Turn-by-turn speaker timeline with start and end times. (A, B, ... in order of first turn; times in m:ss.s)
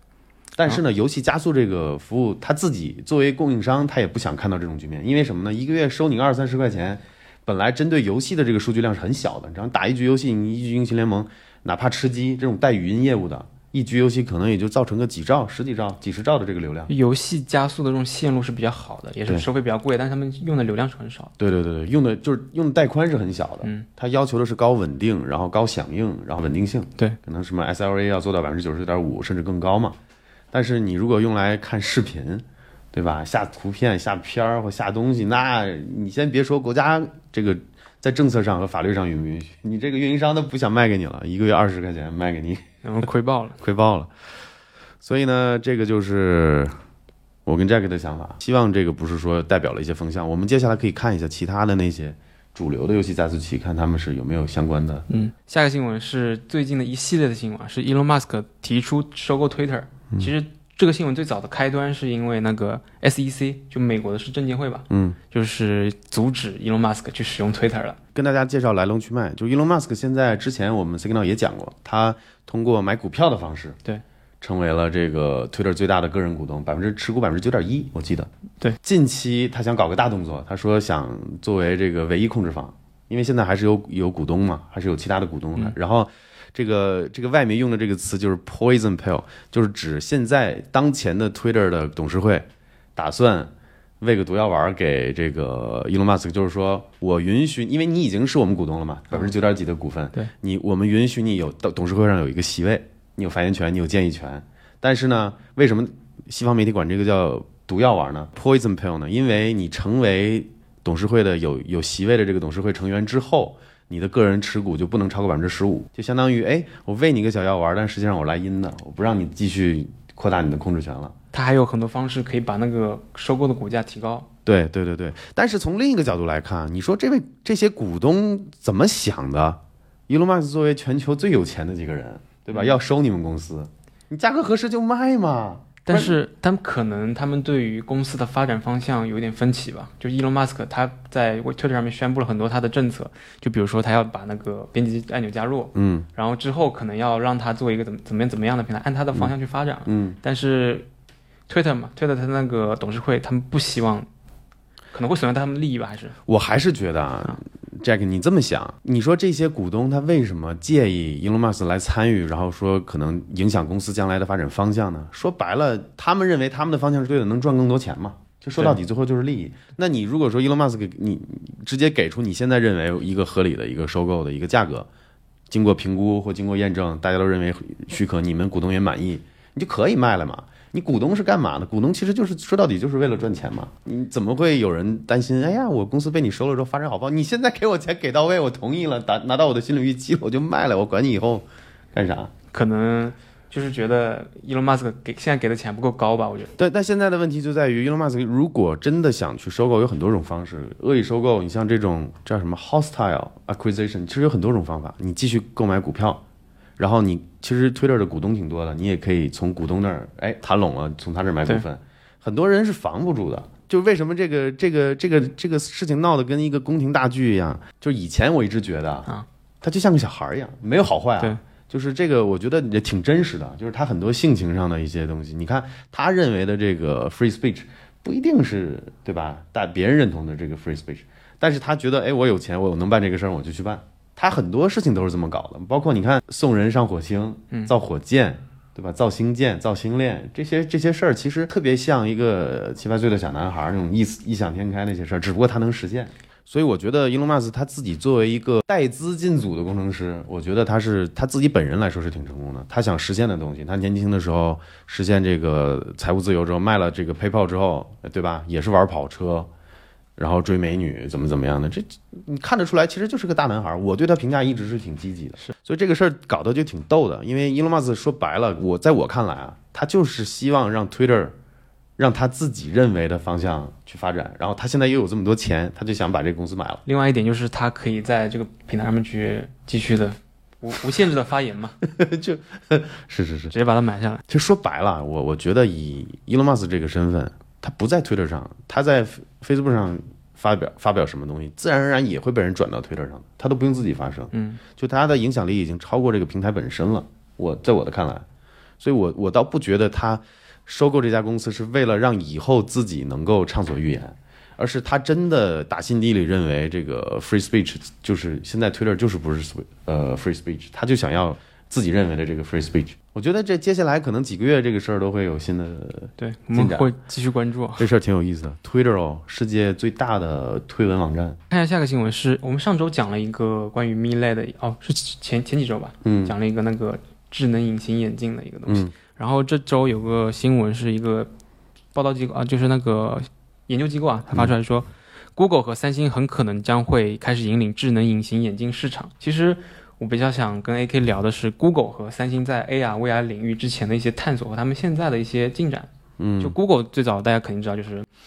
0:00.6-0:16.9 A
0:16.9-0:21.3 B
0:21.4-0:30.0 A
0:30.5-0:42.6 A
0:42.8-0:43.6 B
0:43.6-0:44.1 A
0:45.0-0:46.8 A
0:47.4-0:55.1 A
0:55.1-1:08.0 B
1:04.9-1:05.2 A
1:08.1-1:13.8 A
1:14.4-1:18.3 A
1:18.8-2:01.1 A
2:01.3-2:04.3 B
2:04.4-2:16.2 A
2:12.5-2:12.8 B
2:15.8-2:30.9 B
2:25.8-2:26.1 A
2:29.9-2:30.2 A
2:31.5-2:34.1 B
2:34.9-2:36.2 B
2:36.3-2:54.9 A
2:55.5-3:12.3 A
3:12.5-3:16.5 B
3:16.6-3:26.2 A
3:26.8-3:39.1 A
3:39.6-4:19.5 A
4:20.2-4:31.3 A
4:32.0-4:36.8 A
4:36.9-4:41.8 B
4:41.8-4:43.5 A
4:43.5-4:44.2 B
4:44.3-4:58.2 A
4:54.3-4:54.6 B
4:58.8-5:16.9 A
5:16.2-5:17.9 B
5:17.8-5:21.4 A
5:21.5-5:31.3 B
5:26.0-5:26.3 A
5:28.7-5:28.9 A
5:31.9-5:48.1 B
5:46.2-5:46.6 A